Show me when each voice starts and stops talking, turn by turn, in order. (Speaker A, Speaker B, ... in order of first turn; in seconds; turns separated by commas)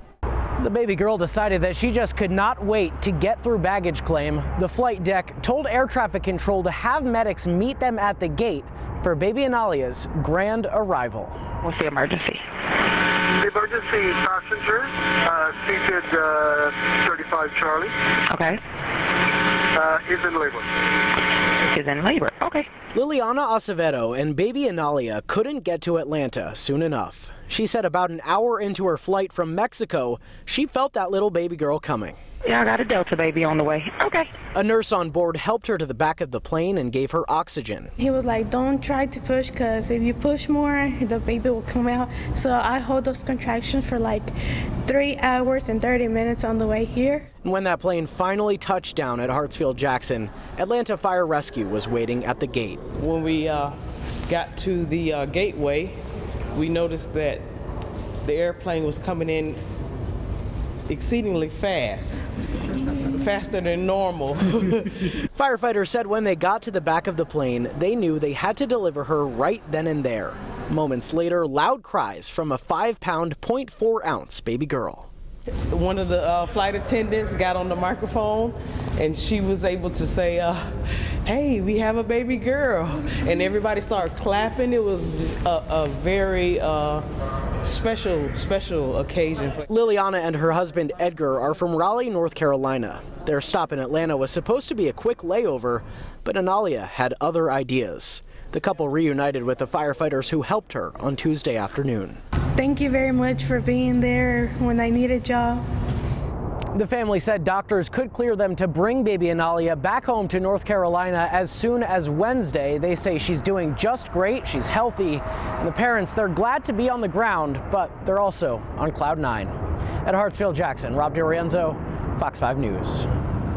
Speaker A: 0.6-11.4, Speaker B: 11.6-12.4, Speaker C: 13.3-17.9, Speaker B: 18.3-18.6, Speaker C: 19.7-20.6, Speaker B: 21.6-22.7, Speaker A: 22.9-32.2, Speaker B: 32.4-34.3, Speaker A: 34.5-37.9, Speaker D: 38.0-44.3, Speaker D: 44.9-47.2, Speaker A: 47.4-52.8, Speaker E: 53.0-53.8, Speaker E: 54.3-56.0, Speaker E: 56.5-57.4, Speaker E: 58.2-59.6, Speaker E: 60.9-62.2, Speaker E: 63.1-65.1, Speaker A: 65.3-75.1, Speaker E: 75.7-80.7, Speaker E: 81.2-87.0, Speaker E: 87.6-89.6, Speaker A: 89.7-102.2, Speaker D: 102.5-105.6, Speaker A: 106.7-119.5, Speaker A: 120.0-123.1